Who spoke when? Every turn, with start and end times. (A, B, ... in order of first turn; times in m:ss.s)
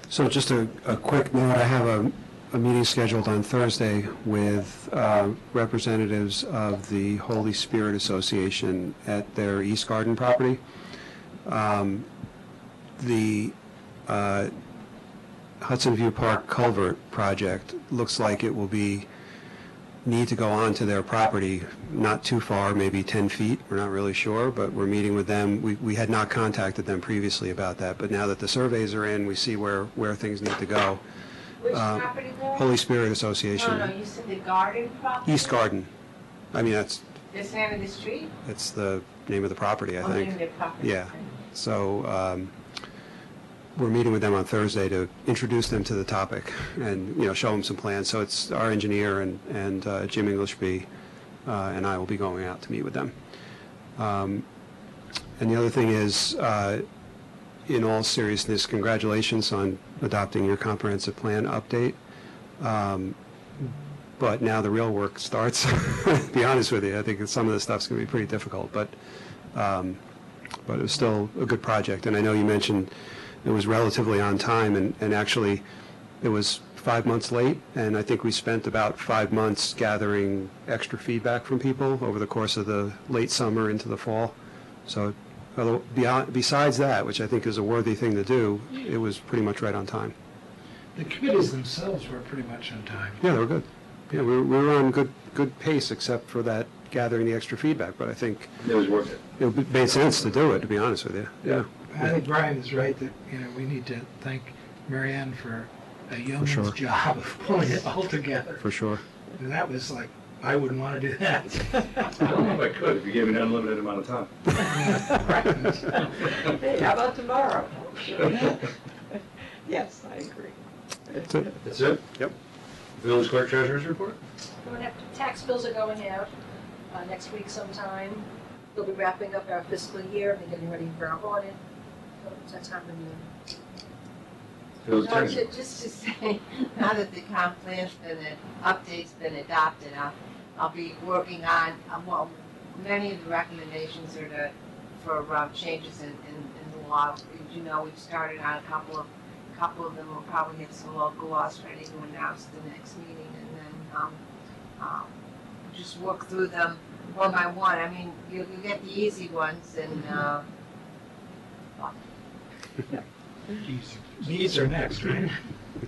0:00.1-0:10.6 A
0:11.5-0:12.1 A
0:13.0-0:13.6 A
0:14.1-0:14.5 A
0:15.6-0:19.1 A
0:20.0-0:31.0 A
0:31.6-0:32.7 B
0:31.7-0:33.9 A
0:33.6-0:35.6 B
0:35.2-0:35.9 A
0:36.5-0:37.1 A
0:37.3-0:38.3 B
0:38.4-0:42.5 A
0:40.0-0:41.2 B
0:43.8-0:50.9 A
0:51.4-0:53.1 A
0:54.0-0:54.4 A
0:55.4-0:56.8 A
0:57.7-1:02.0 A
1:02.6-1:03.2 A
1:04.2-1:09.0 A
1:09.5-1:10.0 A
1:10.7-1:12.9 A
1:13.4-1:15.6 A
1:16.2-1:30.1 A
1:31.0-1:33.2 C
1:33.2-1:38.6 A
1:38.6-1:39.2 D
1:39.4-1:41.7 A
1:41.9-1:48.6 C
1:46.4-1:46.8 A
1:48.6-1:49.0 A
1:49.4-1:51.9 C
1:52.1-1:54.5 D
1:54.7-2:00.6 E
1:54.7-1:55.5 C
2:01.6-2:02.0 D
2:03.0-2:04.2 D
2:04.6-2:06.3 F
2:06.9-2:11.6 F
2:12.2-2:13.3 F
2:14.8-2:15.5 D
2:15.0-2:34.2 B
2:34.8-2:35.1 B
2:35.7-2:40.4 B
2:43.6-2:45.4 C